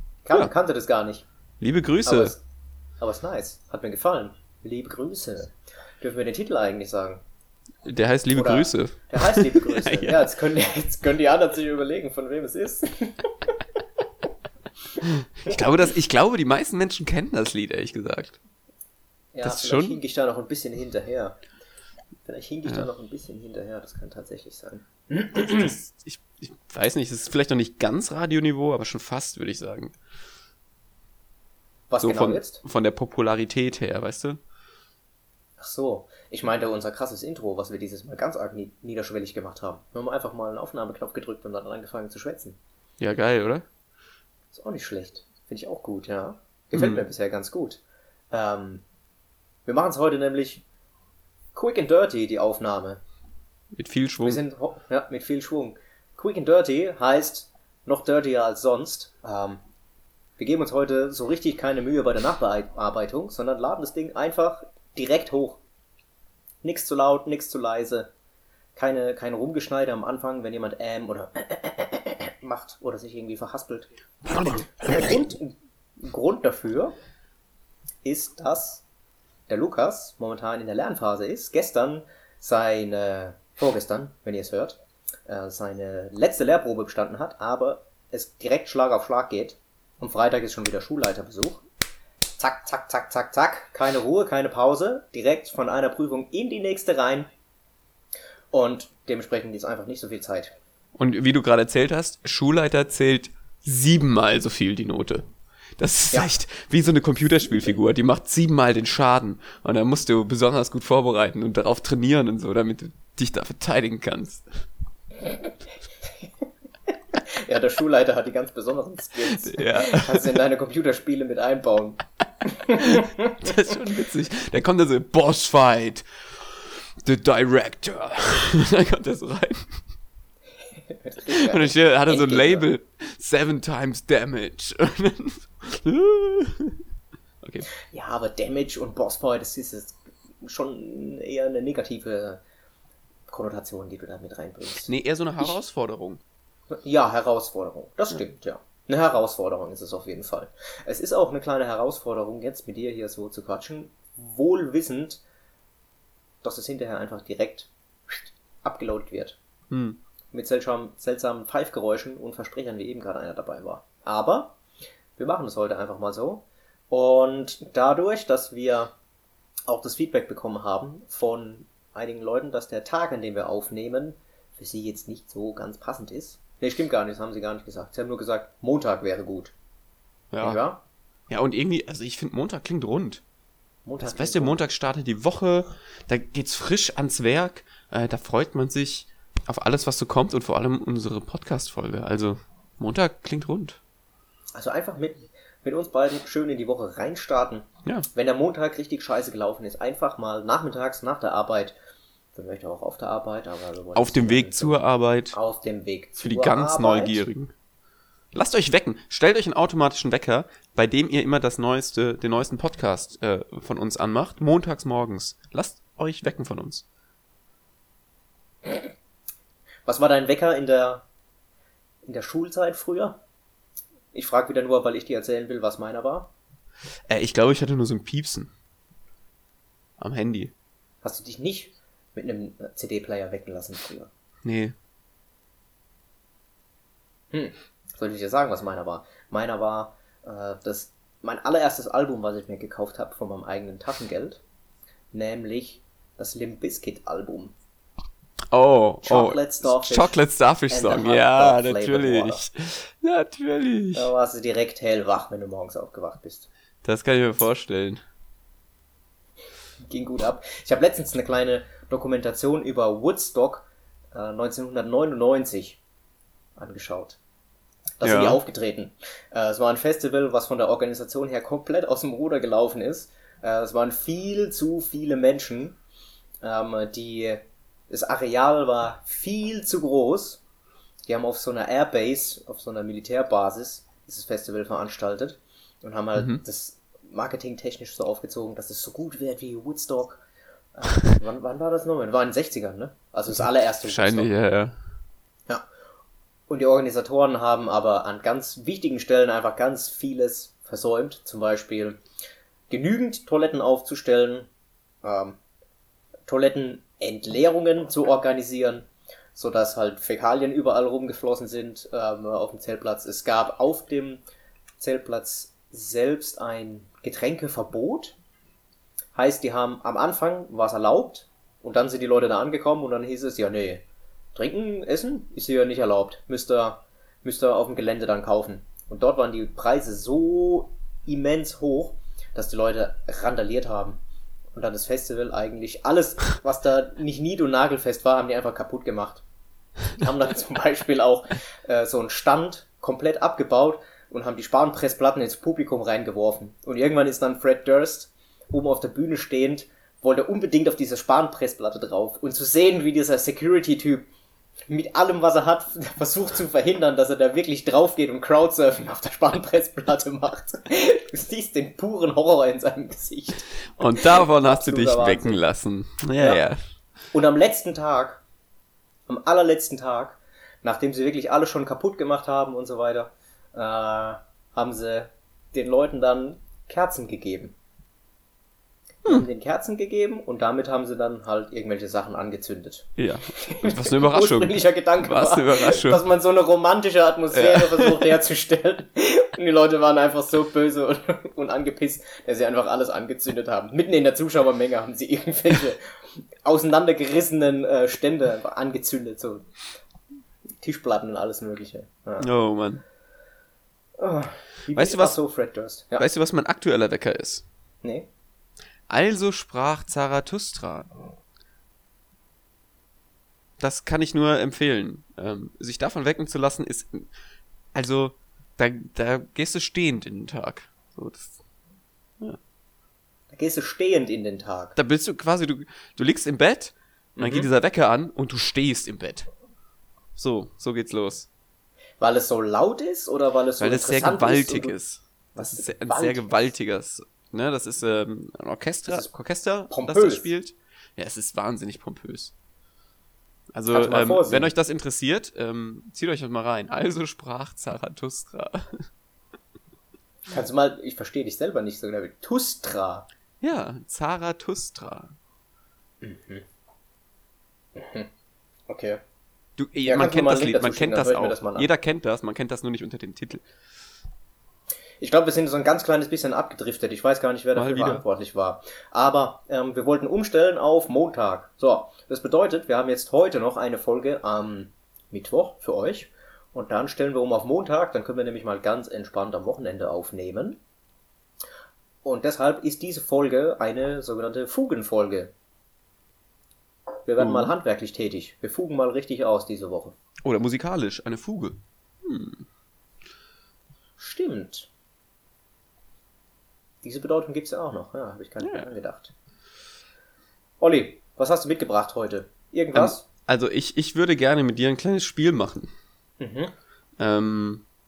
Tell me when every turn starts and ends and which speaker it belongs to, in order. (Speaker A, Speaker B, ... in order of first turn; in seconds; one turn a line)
Speaker A: 0.2-1.2
Speaker B: 1.6-2.3
Speaker A: 2.0-2.4
Speaker A: 3.0-7.2
Speaker B: 7.8-10.2
Speaker A: 8.3-13.3
Speaker B: 15.0-18.4
Speaker A: 19.3-21.4
Speaker B: 19.4-20.0
Speaker A: 22.2-25.7
Speaker B: 25.3-29.9
Speaker A: 31.9-32.6
Speaker B: 32.0-34.4
Speaker A: 35.6-42.6
Speaker B: 43.0-43.6
Speaker A: 44.5-47.8
Speaker B: 46.7-47.0
Speaker A: 48.3-48.8
Speaker A: 49.6-50.6
Speaker A: 51.5-53.0
Speaker B: 53.7-54.4
Speaker A: 54.2-59.6
Speaker A: 60.4-65.6
Speaker A: 66.6-68.1
Speaker A: 68.8-76.9
Speaker B: 74.2-75.3
Speaker A: 78.0-78.8
Speaker A: 79.5-91.6
Speaker A: 92.4-97.3
Speaker A: 98.5-100.5
Speaker B: 101.0-105.2
Speaker B: 105.8-114.5
Speaker A: 117.3-122.0
Speaker B: 119.3-120.3
Speaker A: 122.6-123.3
Speaker B: 122.8-129.8
Speaker A: 131.0-132.7
Speaker B: 131.3-136.8
Speaker A: 137.9-142.4
Speaker A: 143.3-145.6
Speaker B: 144.8-146.2
Speaker A: 146.7-155.2
Speaker A: 156.4-159.4
Speaker B: 159.7-160.0
Speaker A: 160.3-164.6
Speaker A: 165.2-168.9
Speaker A: 169.7-179.5
Speaker B: 180.3-180.6
Speaker A: 180.4-180.8
Speaker B: 181.3-183.2
Speaker A: 183.8-184.6
Speaker B: 184.0-193.8
Speaker A: 194.5-201.8
Speaker A: 202.3-204.8
Speaker B: 203.9-205.4
Speaker A: 205.3-207.2
Speaker B: 206.2-207.5
Speaker B: 208.3-216.8
Speaker A: 219.8-221.1
Speaker A: 222.0-223.2
Speaker A: 224.1-226.3
Speaker B: 227.1-228.5
Speaker B: 230.0-230.5
Speaker A: 231.0-234.1
Speaker B: 234.4-234.8
Speaker A: 237.3-244.4
Speaker A: 245.1-247.5
Speaker B: 248.5-254.1
Speaker A: 249.0-250.2
Speaker A: 250.7-252.4
Speaker A: 253.9-256.5
Speaker B: 256.8-258.0
Speaker A: 259.9-265.8
Speaker A: 266.6-267.2
Speaker A: 268.0-275.8
Speaker B: 268.0-268.4
Speaker A: 276.4-280.4
Speaker A: 281.1-290.2
Speaker B: 286.1-286.4
Speaker A: 290.7-294.3
Speaker B: 293.4-294.8
Speaker A: 296.5-302.0
Speaker A: 302.7-304.5
Speaker A: 305.0-305.4
Speaker A: 306.3-314.2
Speaker A: 314.8-318.2
Speaker A: 319.1-323.8
Speaker A: 324.3-334.0
Speaker A: 334.5-339.2
Speaker A: 339.9-354.1
Speaker A: 354.7-365.4
Speaker B: 363.8-366.6
Speaker A: 367.1-368.2
Speaker A: 369.1-377.5
Speaker A: 379.0-399.5
Speaker B: 383.0-386.0
Speaker B: 387.3-388.0
Speaker A: 400.6-402.3
Speaker B: 402.2-402.8
Speaker A: 404.0-406.1
Speaker B: 404.7-405.2
Speaker B: 406.0-407.4
Speaker A: 407.8-408.1
Speaker B: 408.9-410.9
Speaker B: 413.6-417.1
Speaker B: 417.7-421.3
Speaker A: 423.3-424.8
Speaker B: 424.8-429.3
Speaker A: 427.1-427.5
Speaker B: 430.1-431.3
Speaker A: 432.0-434.7
Speaker B: 433.6-442.3
Speaker A: 435.4-436.2
Speaker A: 438.9-439.1
Speaker A: 439.7-440.3
Speaker B: 443.5-448.9
Speaker A: 443.7-444.5
Speaker A: 450.2-453.1
Speaker B: 453.4-455.1
Speaker A: 456.0-456.4
Speaker A: 457.7-458.1
Speaker A: 458.7-459.0
Speaker B: 459.6-463.4
Speaker A: 459.8-461.7
Speaker A: 465.0-480.6
Speaker B: 467.5-468.0
Speaker A: 482.0-485.3
Speaker A: 487.1-489.9
Speaker B: 487.2-487.5
Speaker B: 490.2-492.4
Speaker A: 494.0-494.7
Speaker A: 496.8-499.1
Speaker B: 498.4-498.7
Speaker A: 500.6-503.0
Speaker B: 502.7-505.7
Speaker A: 506.2-506.5
Speaker B: 507.0-507.6